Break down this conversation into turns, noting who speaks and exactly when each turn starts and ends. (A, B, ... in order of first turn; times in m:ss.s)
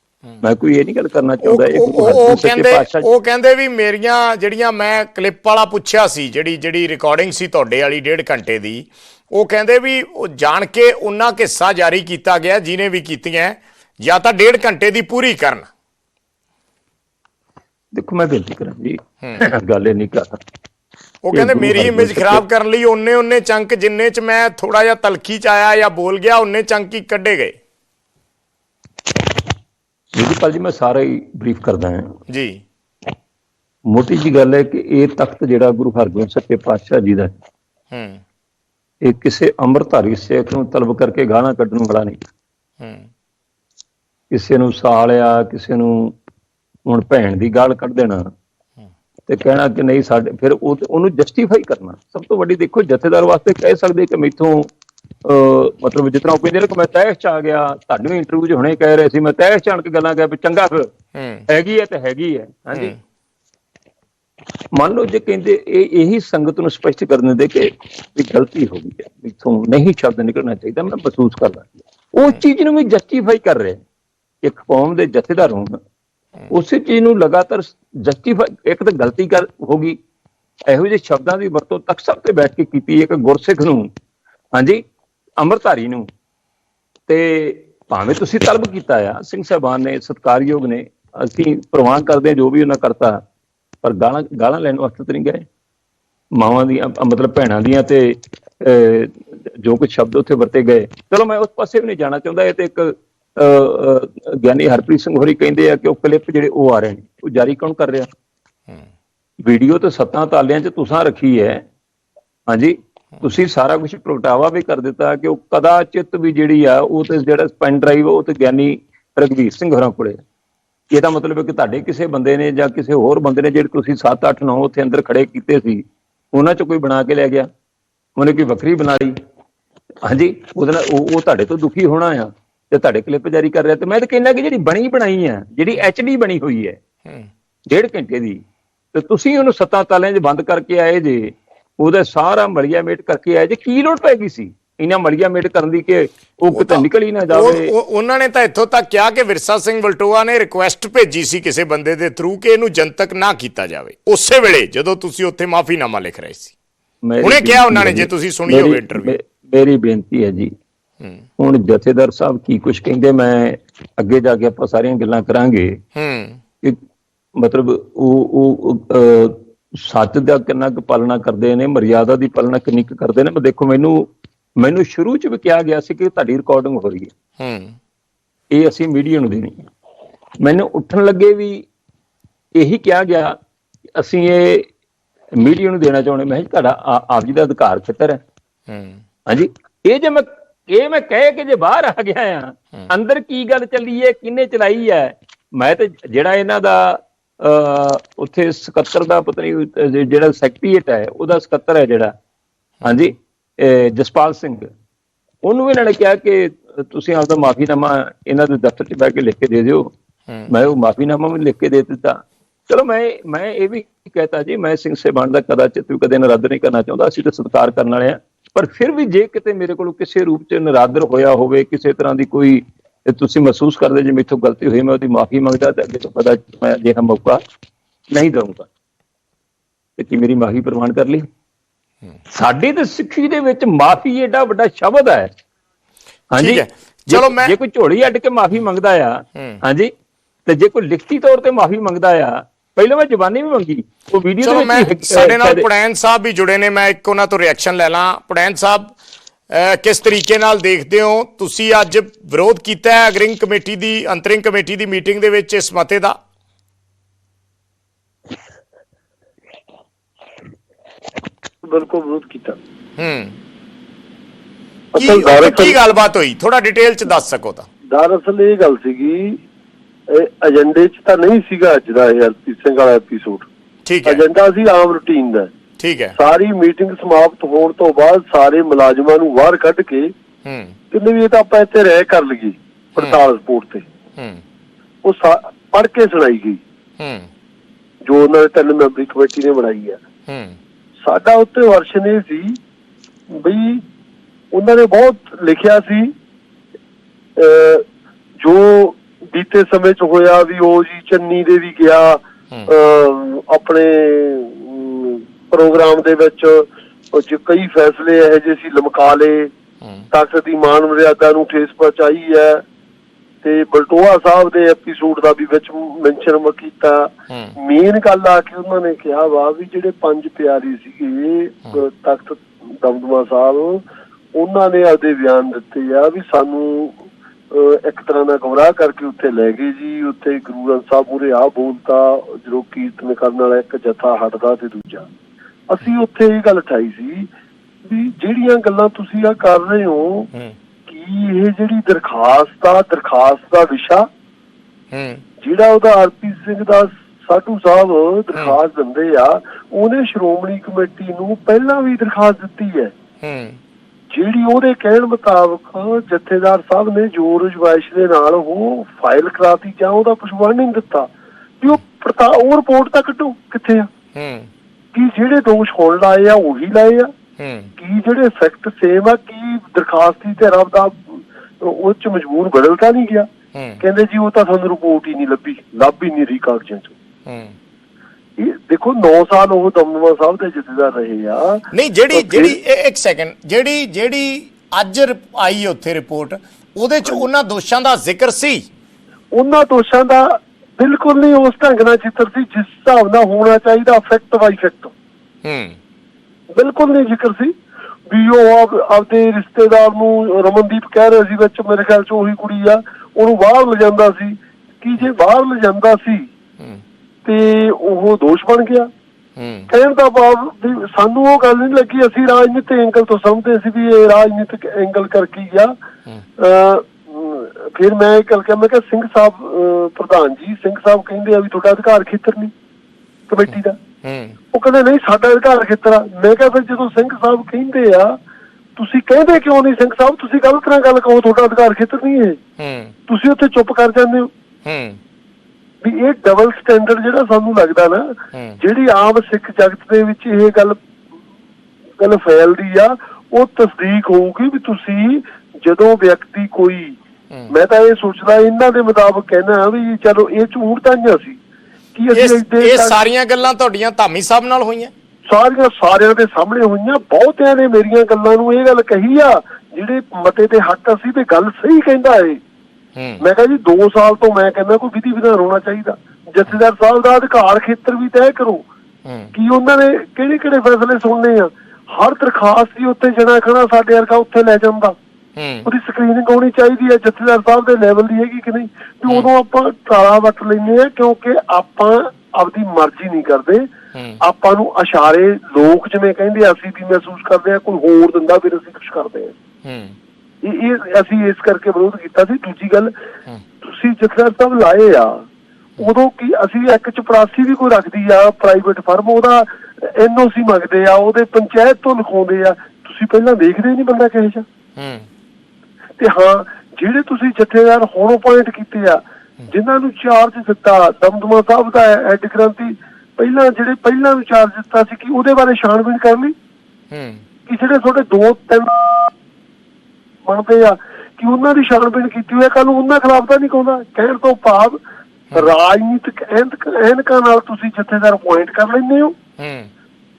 0:00.4-0:03.1 A
0:01.4-0:15.7 B
0:17.9-0:20.4 A
0:21.2-0:27.5 B
0:21.3-0:22.4 A
0:30.1-0:32.0 A
0:32.3-0:32.6 B
0:33.9-0:37.3 A
0:37.9-0:38.2 B
0:39.0-0:42.2 A
0:42.8-0:43.0 B
0:44.3-0:46.1 A
0:46.8-0:48.2 A
0:49.3-0:54.7 A
0:55.2-1:00.9 A
1:01.1-1:01.4 B
1:01.5-1:02.9 A
1:04.7-1:13.8 A
1:14.4-1:15.8 A
1:16.5-1:20.0 A
1:20.7-1:23.9 A
1:24.5-1:24.8 A
1:25.4-1:26.1 A
1:27.1-1:33.2 A
1:33.8-1:35.4 A
1:36.4-1:48.1 A
1:49.4-1:51.6 A
1:52.5-2:00.2 A
2:00.9-2:07.5 A
2:08.2-2:09.1 A
2:10.0-2:16.8 A
2:17.7-2:18.4 A
2:18.9-2:27.7 A
2:26.5-2:36.5 B
2:37.0-2:40.5 A
2:37.2-2:39.1 B
2:41.4-2:45.8 A
2:45.9-2:46.4 B
2:47.4-2:57.1 A
2:57.4-2:57.7 B
2:58.5-2:59.6 A
3:00.4-3:01.6 A
3:02.5-3:03.4 A
3:03.9-3:04.6 A
3:05.4-3:08.2 A
3:08.7-3:09.0 B
3:09.3-3:22.1 A
3:22.8-3:24.7 A
3:25.4-3:29.9 A
3:30.5-3:47.4 A
3:48.1-3:48.7 A
3:50.0-3:51.2 A
3:52.3-3:55.3 A
3:56.3-3:59.9 A
3:56.4-3:57.5 B
3:59.3-3:59.6 B
4:00.4-4:05.6 A
4:04.4-4:08.9 B
4:09.5-4:16.1 B
4:21.6-4:22.6 C
4:23.0-4:23.3 B
4:24.9-4:25.8 C
4:25.0-4:27.6 B
4:27.9-4:29.4 C
4:30.1-4:33.5 C
4:33.8-4:34.2 B
4:34.0-4:35.5 C
4:35.8-4:36.2 B
4:36.2-4:40.1 C
4:40.4-4:40.8 B
4:40.9-4:43.8 C
4:45.0-4:46.6 C
4:47.0-4:47.3 B
4:48.0-4:50.0 C
4:50.3-4:50.6 B
4:51.0-4:52.6 C
4:53.3-4:53.8 C
4:54.5-4:56.1 C
4:57.4-4:57.8 C
4:58.4-5:09.5 C
5:10.1-5:12.6 C
5:13.4-5:35.1 C
5:17.3-5:17.5 B
5:35.7-5:37.3 C
5:37.8-5:40.3 C
5:40.9-5:44.1 C
5:44.9-5:45.2 B
5:45.4-5:52.9 C
5:53.2-5:53.6 B
5:54.1-6:01.1 C
6:01.6-6:03.9 C
6:04.1-6:04.5 B
6:04.9-6:07.1 C
6:07.4-6:07.7 B
6:07.8-6:13.3 C
6:13.5-6:13.8 B
6:13.8-6:16.9 C
6:17.2-6:17.5 B
6:18.4-6:22.6 C
6:21.7-6:28.6 B
6:29.3-6:34.9 C
6:35.4-6:35.8 B
6:36.5-6:37.5 C
6:38.1-6:46.3 C
6:47.2-6:48.9 C
6:49.4-6:49.7 B
6:49.7-6:55.7 C
6:56.4-7:02.5 C
7:03.3-7:03.8 C
7:04.0-7:04.4 B
7:04.5-7:08.2 C
7:08.8-7:12.4 C
7:12.6-7:12.9 B
7:13.1-7:14.3 C
7:14.6-7:15.0 B
7:15.8-7:20.8 C
7:18.3-7:18.6 B
7:22.0-7:27.0 C
7:27.5-7:31.4 C
7:31.9-7:33.0 C
7:32.1-7:34.9 B
7:35.3-7:42.4 C
7:43.0-7:43.2 B
7:43.2-7:48.6 C
7:49.0-7:49.3 B
7:49.3-7:55.0 C
7:55.4-7:55.7 B
7:55.6-8:03.7 C
8:03.9-8:04.2 B
8:04.2-8:09.3 C
8:09.6-8:10.0 B
8:10.4-8:12.9 C
8:13.6-8:15.2 C
8:15.8-8:24.4 C
8:24.8-8:25.1 B
8:26.0-8:36.3 C
8:36.9-8:37.2 B
8:37.5-8:39.1 C
8:40.2-8:44.8 C
8:45.3-8:49.2 C
8:49.4-8:49.7 B